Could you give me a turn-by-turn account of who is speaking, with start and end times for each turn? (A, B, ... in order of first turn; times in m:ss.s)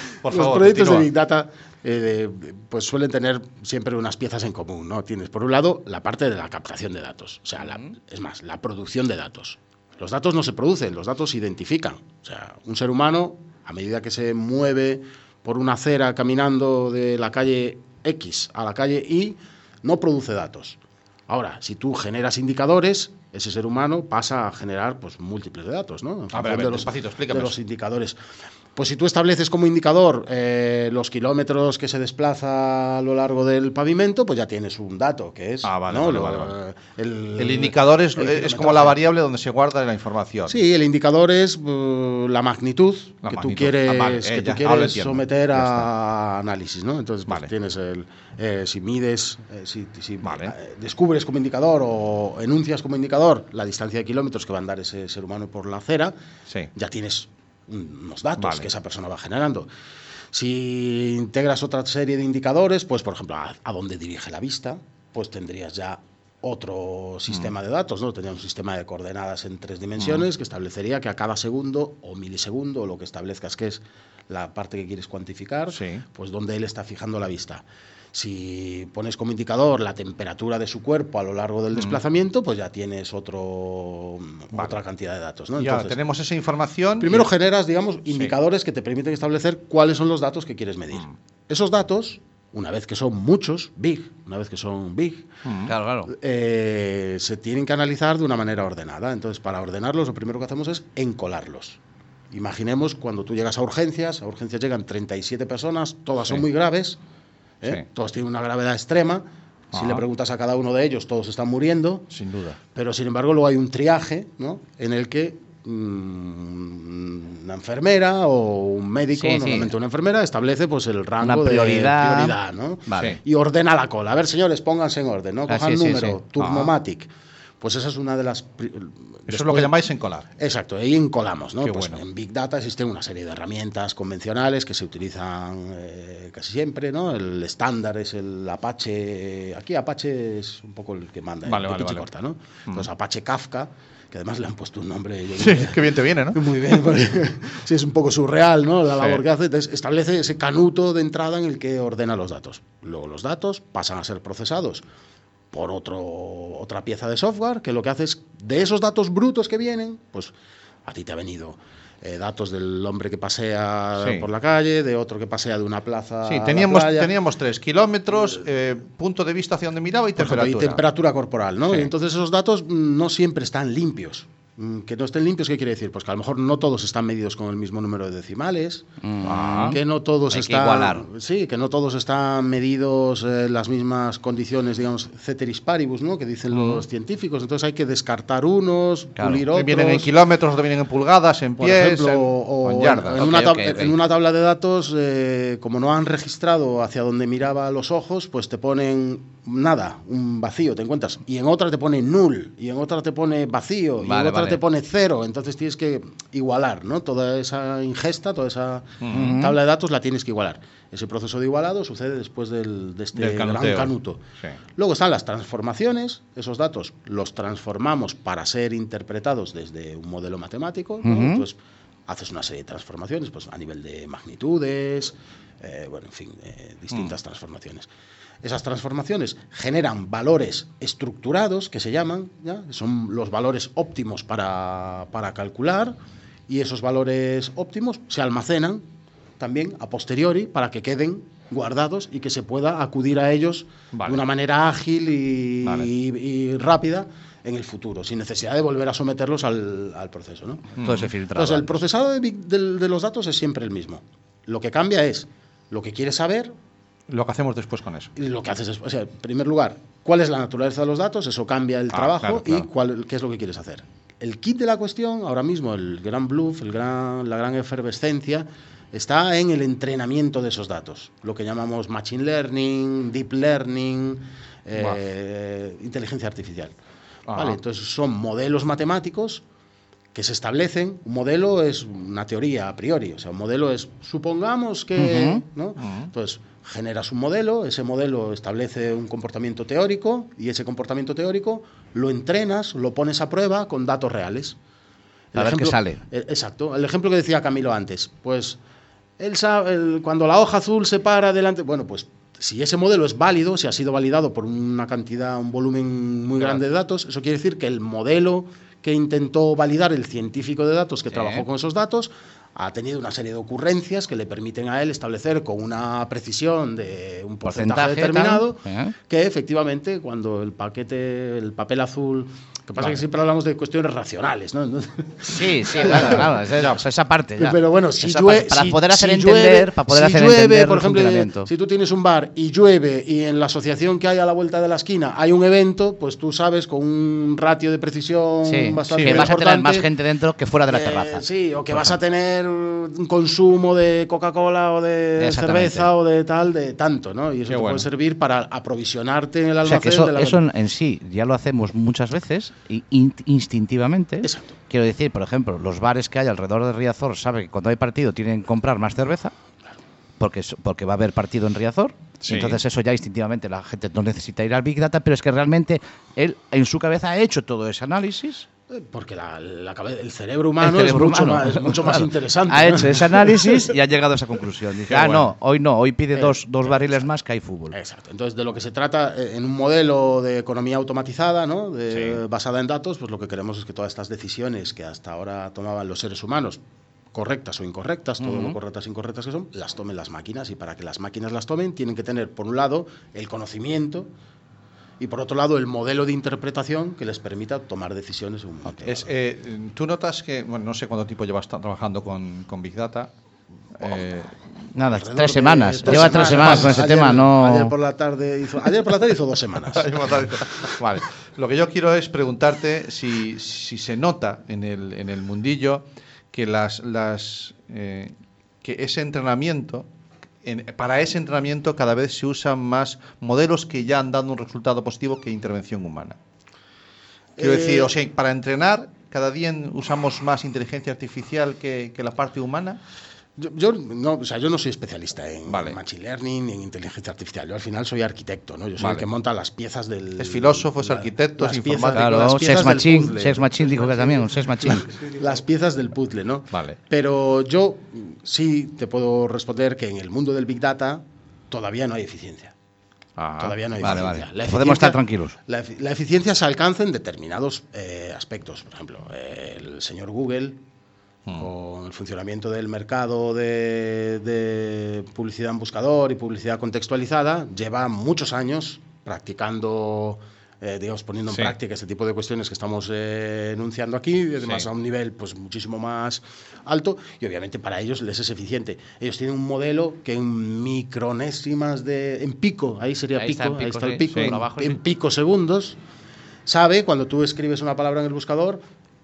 0:00.2-0:01.1 A
0:00.3-0:28.2 B
0:26.3-0:27.6 A
0:28.8-0:39.0 B
0:35.6-0:36.5 A
0:37.4-0:40.6 A
0:40.5-0:56.1 B
0:43.2-0:45.9 A
0:50.2-0:50.5 A
0:56.7-0:59.7 B
0:58.4-0:58.7 A
1:00.3-1:26.0 B
1:10.0-1:10.2 A
1:15.7-1:16.0 A
1:24.5-1:24.8 A
1:25.6-1:27.3 A
1:27.0-1:35.3 B
1:28.1-1:28.3 A
1:35.4-1:35.7 A
1:35.6-1:36.1 C
1:36.1-1:41.8 B
1:42.3-1:47.0 B
1:47.6-1:52.0 B
1:49.7-1:50.0 A
1:52.1-1:52.6 A
1:52.7-2:07.1 B
1:59.1-1:59.7 C
2:01.2-2:03.1 C
2:05.5-2:06.2 C
2:06.4-2:06.7 A
2:07.6-2:09.7 B
2:09.3-2:10.2 A
2:10.4-2:34.8 B
2:11.6-2:12.0 A
2:21.4-2:22.1 A
2:25.4-2:26.5 A
2:35.5-2:40.3 B
2:40.8-2:47.1 B
2:44.0-2:44.2 A
2:46.2-2:50.8 A
2:50.2-2:58.9 B
2:59.0-2:59.8 C
2:59.2-2:59.8 A
2:59.5-3:10.1 B
3:00.3-3:01.1 C
3:06.5-3:06.8 A
3:09.2-3:09.4 C
3:09.5-3:13.4 A
3:11.6-3:34.2 B
3:13.1-3:14.0 C
3:24.0-3:24.6 C
3:29.0-3:29.3 A
3:29.1-3:29.6 C
3:33.1-3:34.6 A
3:34.8-3:47.9 B
3:41.0-3:41.4 C
3:48.4-3:56.0 B
3:56.5-3:58.8 B
3:59.4-4:10.7 B
4:03.9-4:04.2 A
4:05.6-4:05.9 A
4:10.8-4:11.8 C
4:10.8-4:11.1 A
4:11.3-4:16.5 B
4:17.1-4:18.1 A
4:18.2-4:36.7 B
4:21.9-4:22.7 A
4:37.3-4:37.6 A
4:37.3-4:39.4 B
4:40.1-4:54.6 B
4:45.0-4:45.4 C
4:45.8-4:46.1 A
4:55.3-4:58.6 B
4:55.3-4:56.0 C
4:59.2-5:26.3 B
5:11.1-5:11.5 C
5:17.4-5:18.9 C
5:22.8-5:23.0 A
5:25.2-5:31.5 C
5:25.8-5:26.8 A
5:27.4-5:39.9 B
5:38.4-5:42.0 C
5:39.0-5:39.3 A
5:40.7-5:50.4 B
5:45.2-5:45.9 C
5:47.5-5:47.9 A
5:49.6-5:59.3 C
5:54.2-5:54.5 B
6:00.2-6:08.4 C
6:02.2-6:02.6 A
6:08.7-6:13.7 B
6:10.6-6:17.8 C
6:14.9-6:15.3 A
6:16.2-6:16.8 B
6:17.7-6:26.6 B
6:21.9-6:22.2 A
6:27.1-6:34.1 B
6:28.2-6:28.6 C
6:35.0-6:39.1 B
6:38.8-6:43.1 A
6:43.7-6:44.4 A
6:44.7-6:47.7 C
6:44.9-6:50.7 B
6:45.8-6:47.0 A
6:49.7-6:59.9 A
7:00.4-7:06.2 A
7:07.4-7:07.9 B
7:07.4-7:12.8 A
7:13.4-7:32.5 B
7:15.5-7:15.8 A
7:18.8-7:19.1 A
7:20.2-7:22.3 A
7:21.9-7:24.9 C
7:26.5-7:26.8 A
7:33.2-7:34.2 A
7:33.4-7:40.6 B
7:33.8-7:35.4 C
7:41.3-8:05.8 B
7:51.3-7:51.6 A
7:54.4-7:54.7 A
8:03.1-8:04.8 C
8:04.1-8:04.4 A
8:06.4-8:08.6 B